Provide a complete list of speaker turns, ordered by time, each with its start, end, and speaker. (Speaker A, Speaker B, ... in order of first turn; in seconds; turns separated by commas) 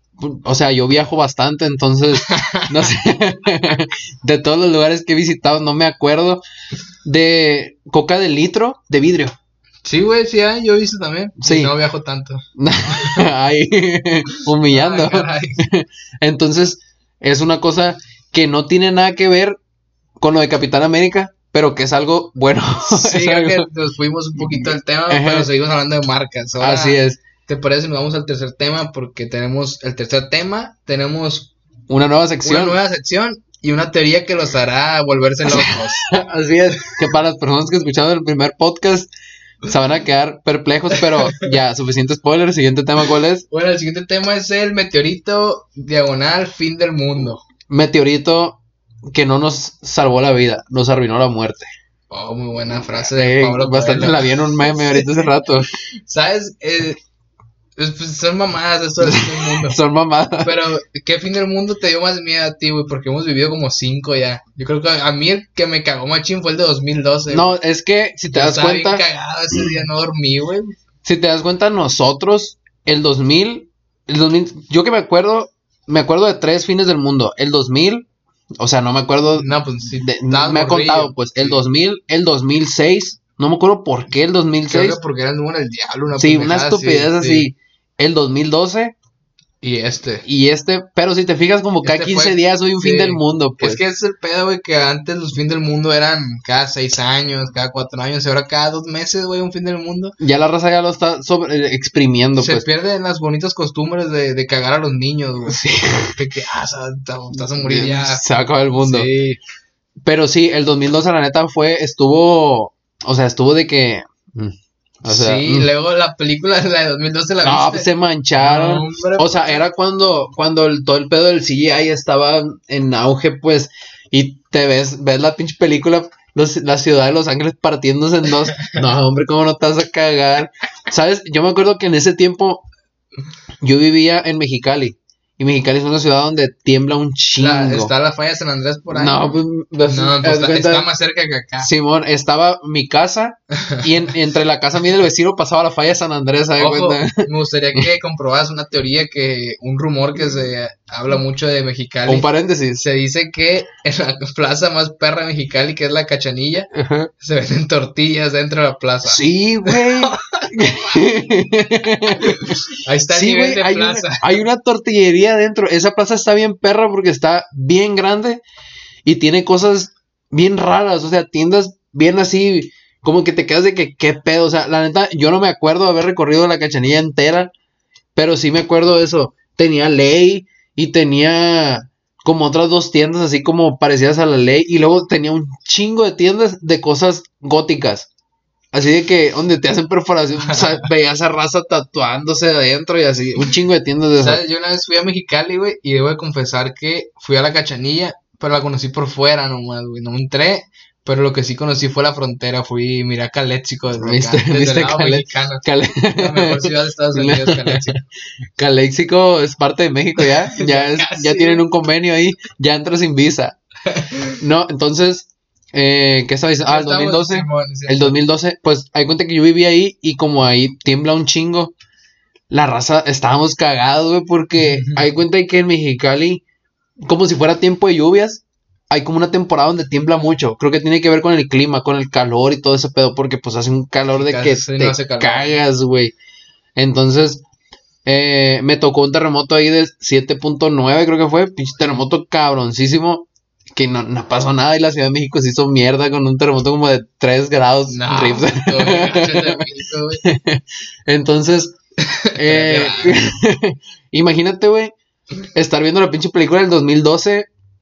Speaker A: 0.2-6.4, Speaker B: 2.2-2.7, Speaker A: 7.0-9.3, Speaker B: 9.8-13.2, Speaker A: 11.4-11.7, Speaker A: 12.6-19.6, Speaker B: 14.7-15.6, Speaker A: 20.2-23.7, Speaker B: 22.9-31.5, Speaker A: 24.4-25.5, Speaker A: 26.6-27.2, Speaker A: 31.9-32.8, Speaker B: 32.4-36.1, Speaker A: 35.5-39.1, Speaker A: 39.6-43.4, Speaker B: 41.0-41.5, Speaker B: 43.5-47.4, Speaker A: 47.7-51.7, Speaker B: 52.1-55.0, Speaker A: 53.1-55.7, Speaker B: 56.1-57.0, Speaker B: 57.8-59.8, Speaker A: 59.0-60.6, Speaker B: 60.4-67.5, Speaker A: 67.3-69.0, Speaker B: 68.3-70.7, Speaker A: 71.0-78.1, Speaker A: 78.6-85.0, Speaker B: 79.3-81.6, Speaker B: 84.7-87.5, Speaker A: 86.2-88.9, Speaker B: 89.6-90.2, Speaker A: 90.2-93.8, Speaker B: 91.8-100.2, Speaker A: 100.2-102.7, Speaker B: 102.4-105.6, Speaker A: 105.5-106.2, Speaker B: 106.1-108.2, Speaker A: 107.4-109.1, Speaker B: 108.8-109.4, Speaker A: 110.0-115.7, Speaker B: 115.0-119.6, Speaker A: 117.4-132.6, Speaker A: 133.6-137.9, Speaker B: 137.4-139.2, Speaker A: 138.9-140.8, Speaker B: 139.8-141.7, Speaker A: 141.6-147.8, Speaker B: 143.6-143.9, Speaker B: 146.6-152.3, Speaker A: 152.1-152.8, Speaker B: 152.8-160.7, Speaker A: 156.7-157.1, Speaker A: 159.0-168.4, Speaker B: 162.2-164.4, Speaker A: 169.0-177.5, Speaker A: 178.1-188.1, Speaker A: 188.7-194.4, Speaker B: 190.5-190.8, Speaker B: 194.2-208.0, Speaker A: 204.0-208.0, Speaker A: 208.6-213.6, Speaker B: 210.2-211.6, Speaker B: 213.9-214.4, Speaker A: 214.4-221.7, Speaker B: 216.7-218.2, Speaker A: 222.5-226.4, Speaker B: 224.6-225.0, Speaker A: 227.1-236.1, Speaker B: 234.1-235.6, Speaker A: 236.8-237.4, Speaker A: 238.0-249.6, Speaker B: 247.9-250.2, Speaker A: 250.2-251.8, Speaker B: 252.1-253.2, Speaker A: 252.3-254.9, Speaker A: 255.5-257.5